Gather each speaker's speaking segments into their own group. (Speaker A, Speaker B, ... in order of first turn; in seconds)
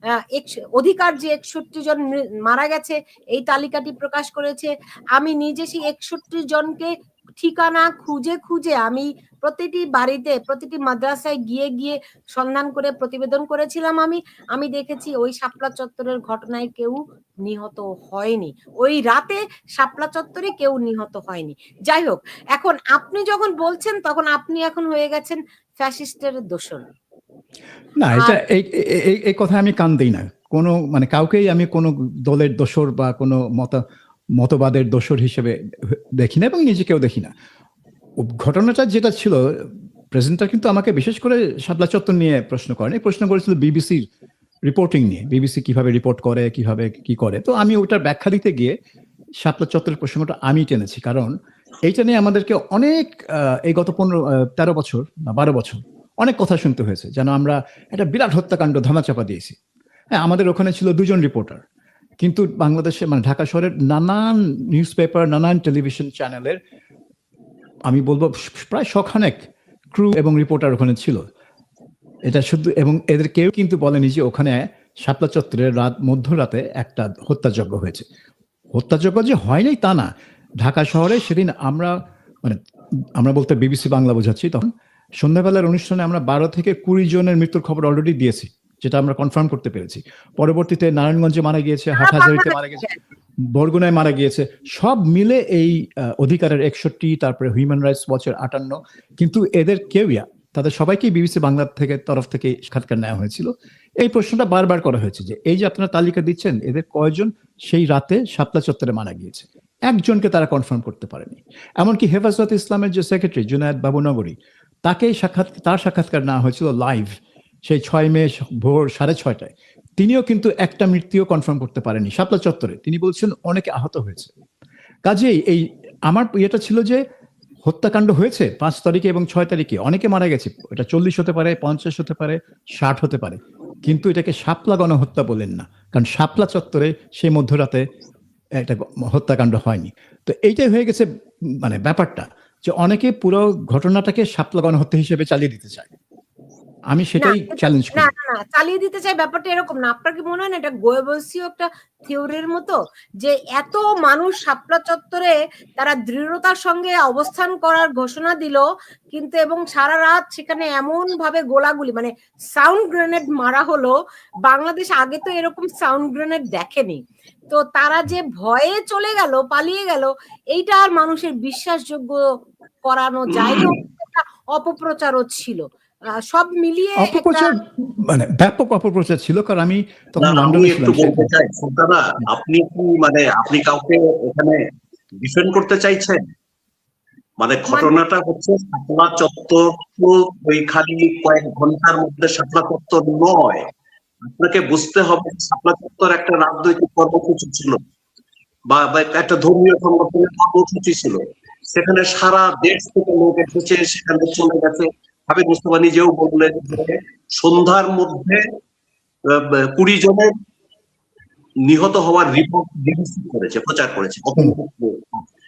Speaker A: 0.2-26.9, 91.9-93.0, 147.2-163.9, 164.5-172.2, 172.8-175.6, 176.2-177.5
Speaker B: 28.0-33.8, 34.4-37.3, 38.2-44.0, 44.7-48.7, 49.4-51.3, 51.9-59.5, 60.2-61.6, 62.2-66.6, 67.9-69.4, 69.9-71.2, 72.3-78.0, 78.7-80.1, 80.6-82.6, 83.2-92.8, 93.5-114.3, 114.8-117.1, 117.7-124.3, 125.0-127.0, 127.6-137.8, 138.6-141.1, 141.6-145.9, 146.9-148.1, 176.9-181.3
Speaker C: 173.3-173.7, 180.2-184.6, 185.2-186.2, 187.4-193.6, 194.3-197.8, 198.7-208.4, 209.3-210.3, 211.7-215.2